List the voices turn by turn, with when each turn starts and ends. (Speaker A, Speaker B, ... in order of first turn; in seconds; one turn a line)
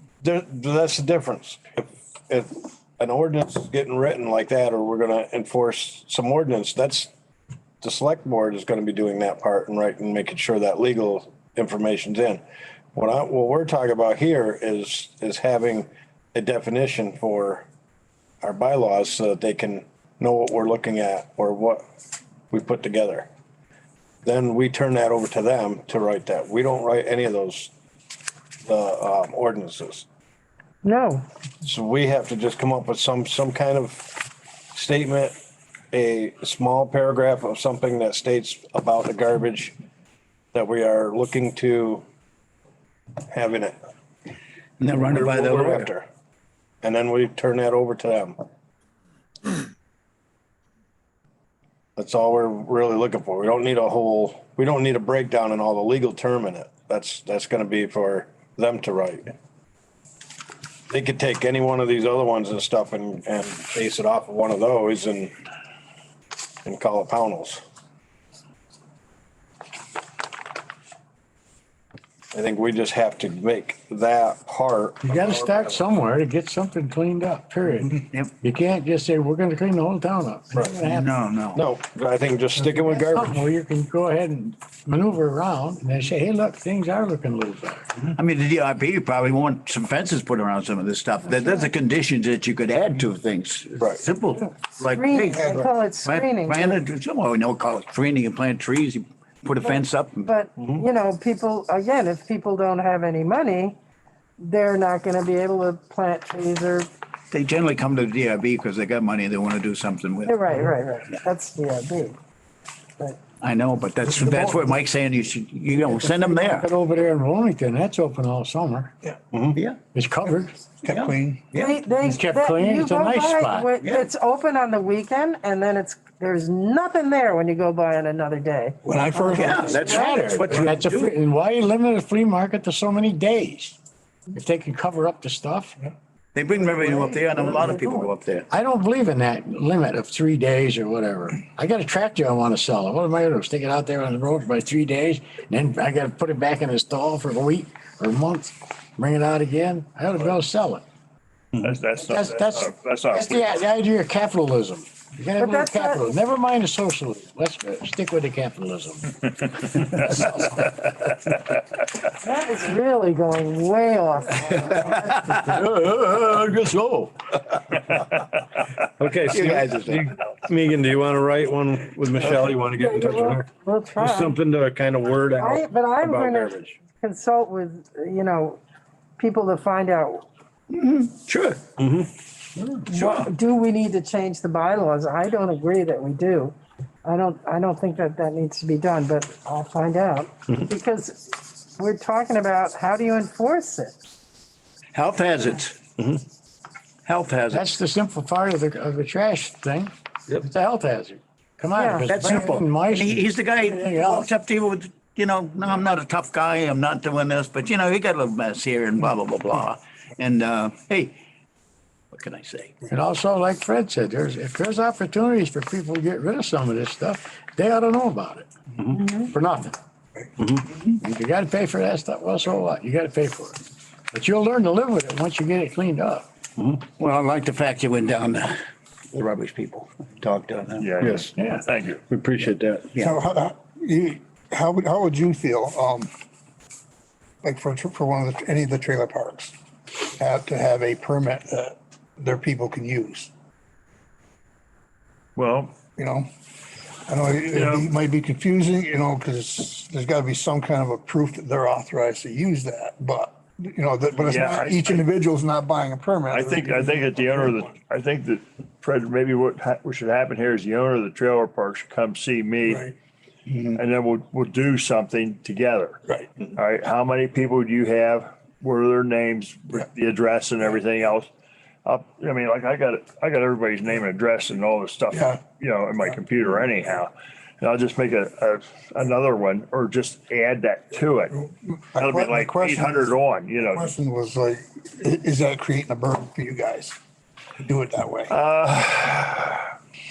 Speaker A: 0.2-7.1
Speaker A: 7.8-12.4
Speaker A: 12.9-17.6
Speaker A: 18.4-21.9
Speaker A: 22.5-23.3
Speaker A: 24.2-27.7
Speaker A: 28.6-30.1
Speaker B: 30.8-31.3
Speaker A: 31.6-34.2
Speaker A: 34.7-35.4
Speaker A: 35.9-39.8
Speaker A: 40.5-42.0
Speaker A: 43.3-43.8
Speaker C: 44.8-45.9
Speaker A: 45.0-46.1
Speaker A: 46.8-48.4
Speaker A: 52.0-59.3
Speaker A: 60.9-65.3
Speaker A: 66.7-67.6
Speaker A: 72.3-75.8
Speaker D: 75.0-81.1
Speaker C: 80.9-81.6
Speaker A: 81.5-83.4
Speaker D: 82.6-88.0
Speaker C: 88.2-95.5
Speaker A: 93.8-94.0
Speaker B: 94.8-96.8
Speaker C: 96.0-100.3
Speaker B: 99.6-103.8
Speaker A: 100.6-100.8
Speaker B: 104.4-106.9
Speaker C: 107.3-110.4
Speaker B: 110.2-112.2
Speaker C: 113.4-116.7
Speaker D: 115.9-118.9
Speaker A: 119.3-119.6
Speaker D: 119.9-120.6
Speaker E: 120.8-121.5
Speaker C: 120.9-121.8
Speaker B: 121.5-130.3
Speaker D: 122.0-123.7
Speaker E: 128.8-130.7
Speaker D: 129.3-133.8
Speaker C: 129.4-131.1
Speaker D: 134.3-135.8
Speaker C: 136.3-138.5
Speaker D: 138.5-150.8
Speaker F: 151.7-153.5
Speaker D: 152.0-160.8
Speaker B: 155.4-156.1
Speaker B: 162.2-165.4
Speaker C: 165.4-167.2
Speaker A: 169.0-176.8
Speaker C: 169.3-170.0
Speaker B: 172.7-174.4
Speaker B: 175.4-178.6
Speaker B: 179.2-180.3
Speaker C: 180.7-181.7
Speaker A: 181.8-182.1
Speaker C: 182.9-183.3
Speaker B: 182.9-194.1
Speaker C: 194.9-195.8
Speaker C: 197.1-197.7
Speaker D: 197.5-204.3
Speaker B: 201.7-202.1
Speaker C: 202.1-211.2
Speaker C: 212.1-212.8
Speaker D: 212.9-219.8
Speaker C: 220.4-220.7
Speaker D: 220.9-223.6
Speaker D: 224.1-226.3
Speaker C: 226.6-230.9
Speaker F: 230.9-232.0
Speaker A: 231.0-231.3
Speaker D: 231.4-231.7
Speaker A: 232.1-233.1
Speaker E: 233.0-236.1
Speaker E: 237.4-239.6
Speaker E: 240.2-243.3
Speaker F: 245.4-245.7
Speaker E: 246.0-246.3
Speaker E: 247.1-257.7
Speaker F: 257.8-262.5
Speaker E: 262.6-262.9
Speaker F: 263.8-265.9
Speaker F: 266.6-271.3
Speaker F: 271.9-275.0
Speaker E: 275.1-276.2
Speaker F: 275.6-277.1
Speaker F: 277.6-281.2
Speaker E: 281.3-287.0
Speaker F: 282.6-283.6
Speaker E: 287.6-288.4
Speaker F: 288.5-289.7